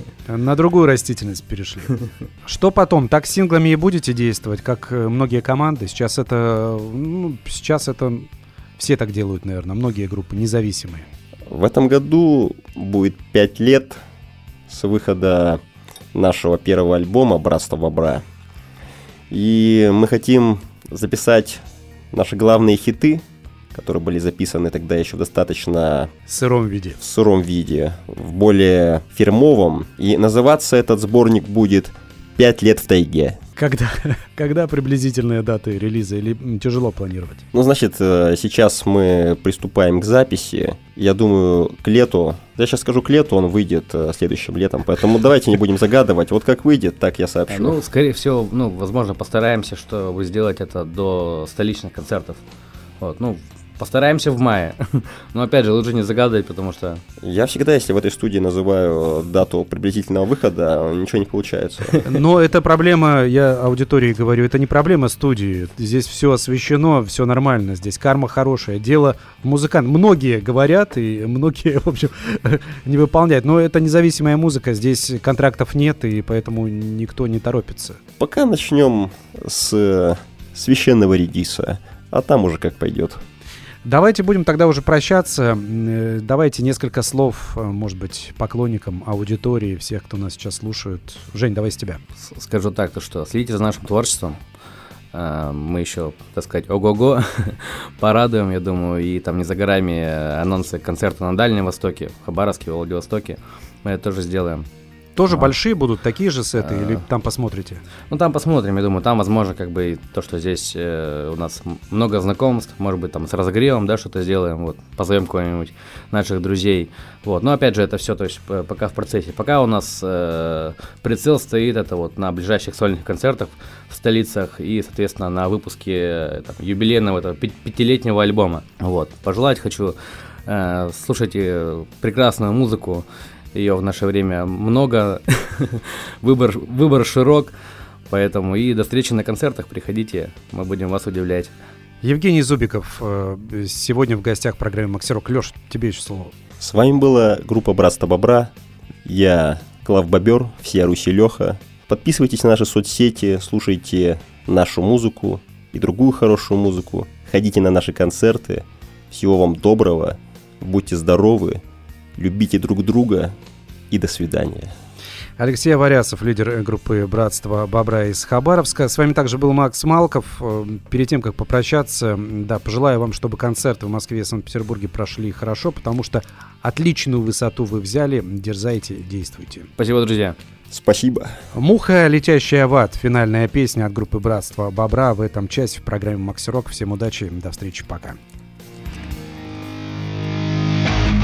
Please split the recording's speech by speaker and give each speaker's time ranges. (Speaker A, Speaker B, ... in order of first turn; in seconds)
Speaker A: 0.3-11.1, 26.3-27.0, 33.6-37.4, 62.0-78.0, 83.8-92.0, 105.2-107.8, 142.0-146.3, 165.4-179.7, 181.5-188.2
Speaker B: 11.5-14.0, 14.7-15.6, 16.1-18.2, 19.3-26.1, 27.0-33.4, 37.5-47.8, 57.2-62.0, 78.2-83.2, 146.6-148.5, 149.1-161.6, 162.2-163.4, 163.9-164.7, 180.7-181.4
Speaker C: 47.5-52.4, 53.0-57.0, 92.2-94.4, 95.1-104.7, 106.7-107.0, 108.1-137.5, 138.1-141.5, 179.8-180.4